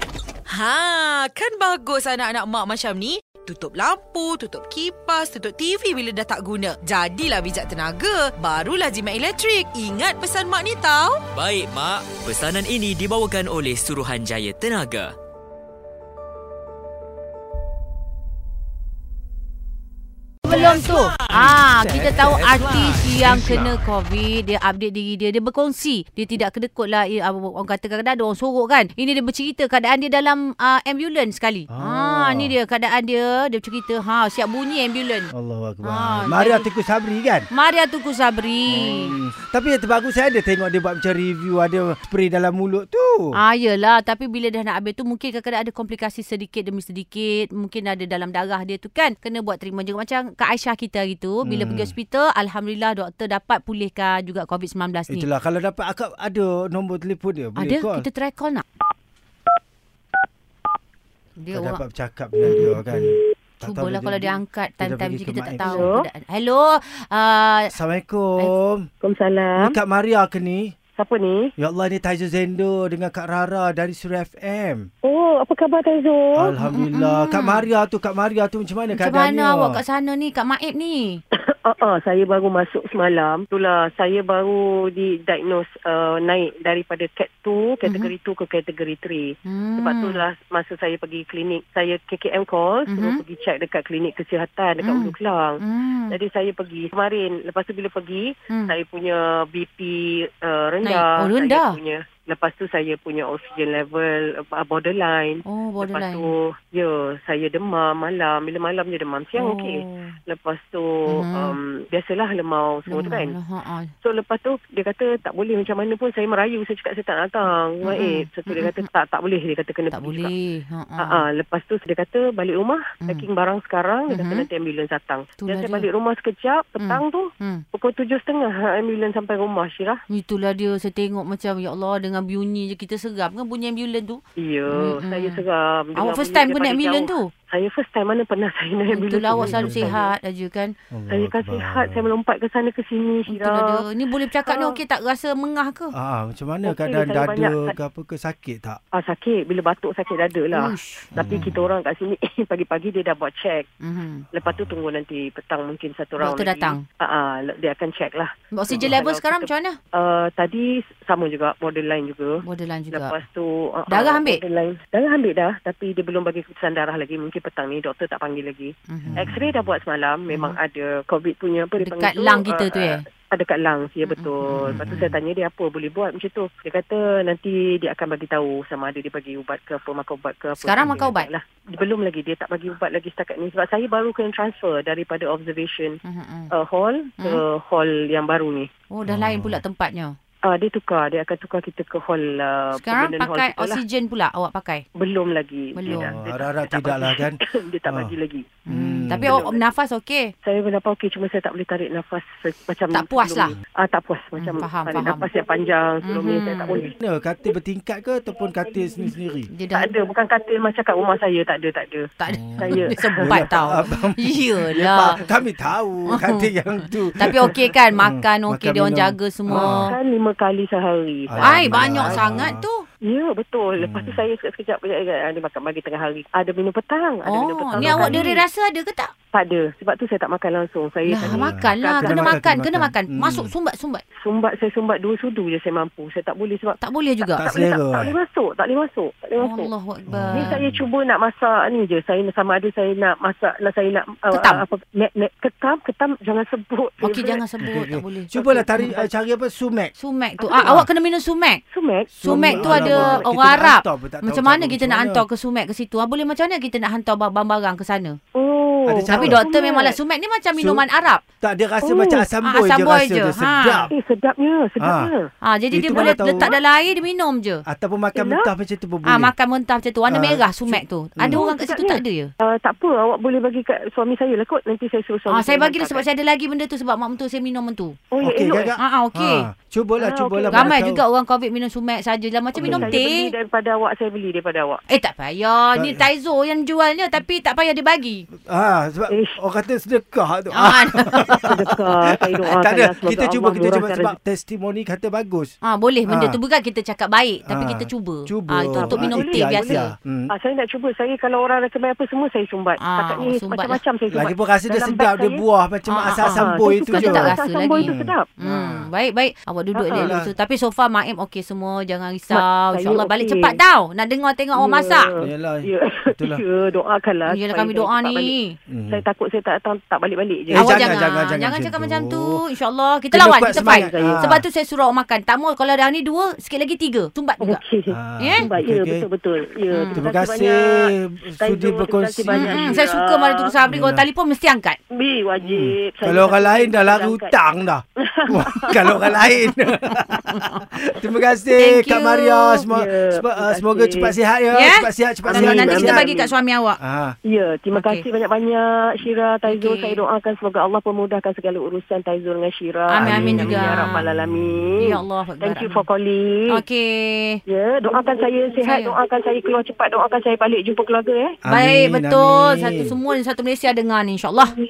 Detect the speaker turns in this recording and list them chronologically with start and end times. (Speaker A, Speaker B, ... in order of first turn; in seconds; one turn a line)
Speaker A: 0.5-11.2
Speaker B: 11.3-15.1
Speaker C: 20.5-36.7
Speaker B: 20.5-23.4
Speaker D: 23.4-23.7
Speaker D: 31.7-32.6
Speaker D: 35.3-37.5
Speaker C: 37.5-39.2
Speaker D: 38.7-43.4
Speaker C: 43.3-55.3
Speaker D: 51.4-52.0
Speaker D: 55.1-58.1
Speaker C: 57.6-58.6
Speaker C: 61.4-61.8
Speaker D: 61.5-65.9
Speaker C: 62.5-62.8
Speaker C: 63.6-67.7
Speaker E: 65.6-66.1
Speaker D: 67.7-68.9
Speaker E: 69.0-69.8
Speaker D: 69.6-70.7
Speaker E: 71.0-71.5
Speaker D: 71.6-74.9
Speaker E: 75.0-76.5
Speaker D: 76.3-79.8
Speaker C: 76.6-77.7
Speaker C: 78.9-81.2
Speaker E: 81.4-113.4
Speaker C: 87.8-88.1
Speaker C: 89.5-90.2
Speaker C: 92.9-93.2
Speaker C: 94.8-96.2
Speaker C: 98.5-98.8
Speaker C: 100.8-101.8
Speaker C: 105.5-106.3
Speaker C: 109.3-110.1
Speaker C: 111.1-111.6
Speaker C: 112.9-113.9
Speaker E: 114.0-120.3
Speaker C: 117.8-118.9
Speaker C: 119.9-121.2
Speaker E: 121.0-130.0
Speaker C: 124.1-124.5
Speaker C: 125.4-125.9
Speaker C: 126.8-127.6
Speaker C: 130.1-135.4
Speaker E: 134.4-140.1
Speaker C: 136.0-137.3
Speaker C: 138.9-140.7
Speaker D: 139.4-139.9
Speaker D: 140.9-142.1
Speaker E: 141.1-143.8
Speaker C: 143.3-145.9
Speaker E: 144.4-144.8
Speaker D: 145.9-148.8
Speaker E: 146.7-147.8
Speaker E: 148.9-153.7
Speaker C: 150.5-151.4
Speaker D: 151.1-151.7
Speaker C: 153.8-154.3
Speaker E: 154.3-162.4
Speaker D: 154.4-154.8
Speaker C: 156.2-156.8
Speaker C: 158.5-159.8
Speaker C: 162.4-163.2
Speaker E: 162.9-186.0
Speaker C: 163.9-164.4
Speaker C: 168.9-169.2
Speaker D: 169.0-169.8
Speaker C: 170.3-170.6
Speaker C: 171.8-173.0
Speaker C: 174.1-175.1
Speaker D: 174.6-175.2
Speaker C: 180.6-181.3
Speaker D: 180.8-181.1
Speaker C: 186.1-186.5
Speaker E: 186.5-188.7
Speaker C: 188.9-190.2
Speaker D: 189.1-189.6
Speaker E: 190.5-193.8
Speaker C: 192.8-194.8
Speaker E: 195.0-198.5
Speaker C: 195.8-196.1
Speaker D: 195.9-198.1
Speaker C: 198.7-200.3
Speaker D: 198.7-199.3
Speaker E: 199.2-199.7
Speaker E: 200.4-206.9
Speaker C: 202.9-203.5
Speaker C: 204.4-205.3
Speaker C: 206.0-206.8
Speaker D: 207.0-209.5
Speaker C: 209.5-209.9
Speaker E: 209.7-212.1
Speaker C: 212.2-215.2
Speaker D: 212.3-219.9
Speaker E: 212.6-213.3
Speaker C: 216.1-216.5
Speaker C: 217.2-219.9
Speaker E: 219.8-222.4
Speaker D: 221.3-222.7
Speaker C: 221.4-222.9
Speaker E: 223.0-228.4
Speaker D: 223.8-224.2
Speaker C: 227.2-229.1
Speaker D: 227.8-228.3
Speaker E: 229.3-232.4
Speaker C: 231.1-234.0
Speaker D: 231.2-233.5
Speaker E: 234.2-239.7
Speaker C: 236.8-237.4
Speaker D: 237.4-238.2
Speaker C: 239.4-240.6
Speaker D: 240.1-240.9
Speaker E: 240.3-247.4
Speaker C: 244.3-244.6
Speaker C: 247.0-248.9
Speaker D: 247.6-249.9
Speaker E: 248.4-249.1
Speaker C: 250.0-251.6
Speaker E: 250.4-250.7
Speaker D: 250.6-250.9
Speaker E: 251.7-253.3
Speaker D: 252.1-255.2
Speaker C: 252.2-258.2
Speaker E: 258.4-260.0
Speaker D: 258.9-259.4
Speaker C: 259.1-261.2
Speaker D: 260.6-260.9
Speaker D: 261.4-263.9
Speaker E: 261.8-262.3
Speaker C: 262.4-263.9
Speaker E: 263.9-265.3
Speaker D: 264.8-265.1
Speaker C: 265.4-267.6
Speaker D: 265.7-266.5
Speaker E: 265.9-266.6
Speaker D: 267.7-269.3
Speaker E: 268.1-268.5
Speaker C: 269.0-272.3
Speaker D: 270.1-271.4
Speaker E: 271.3-276.1
Speaker C: 275.3-278.0
Speaker E: 278.1-278.8
Speaker D: 278.2-281.0
Speaker C: 278.8-279.5
Speaker E: 280.0-280.8
Speaker C: 280.5-283.3
Speaker E: 282.6-284.8
Speaker D: 282.6-282.9
Speaker C: 284.9-288.3
Speaker D: 285.8-286.1
Speaker D: 288.5-295.5
Speaker E: 289.1-289.4
Speaker C: 290.5-291.6
Speaker E: 291.5-294.2
Speaker C: 295.6-299.9
Speaker D: 296.1-296.4
Speaker D: 297.5-300.3
Speaker E: 298.8-305.4
Speaker C: 302.8-303.8
Speaker D: 304.1-308.9
Speaker C: 305.9-315.1
Speaker E: 306.4-308.3
Speaker E: 309.8-310.1
Speaker D: 309.9-310.3
Speaker E: 312.3-313.6
Speaker E: 314.6-318.3
Speaker D: 315.2-316.4
Speaker C: 317.3-318.6
Speaker D: 318.7-319.0
Speaker E: 318.9-320.8
Speaker D: 320.5-322.4
Speaker C: 320.5-327.6
Speaker D: 323.1-324.4
Speaker E: 323.5-324.2
Speaker E: 327.4-333.6
Speaker D: 327.9-329.1
Speaker C: 328.2-328.5
Speaker C: 329.7-330.1
Speaker D: 330.0-332.7
Speaker C: 332.3-334.8
Speaker D: 333.6-334.1
Speaker E: 334.9-337.4
Speaker D: 335.4-346.1
Speaker E: 338.0-339.2
Speaker C: 340.0-340.6
Speaker C: 341.6-342.7
Speaker E: 342.7-344.1
Speaker C: 344.5-346.8
Speaker E: 345.3-346.3
Speaker D: 346.8-347.2
Speaker E: 347.2-356.6
Speaker C: 347.7-348.0
Speaker C: 349.5-350.0
Speaker C: 352.9-354.1
Speaker D: 353.0-355.0
Speaker C: 354.8-355.8
Speaker C: 356.5-357.4
Speaker E: 357.5-361.4
Speaker C: 358.6-359.0
Speaker D: 361.4-363.0
Speaker C: 361.4-364.5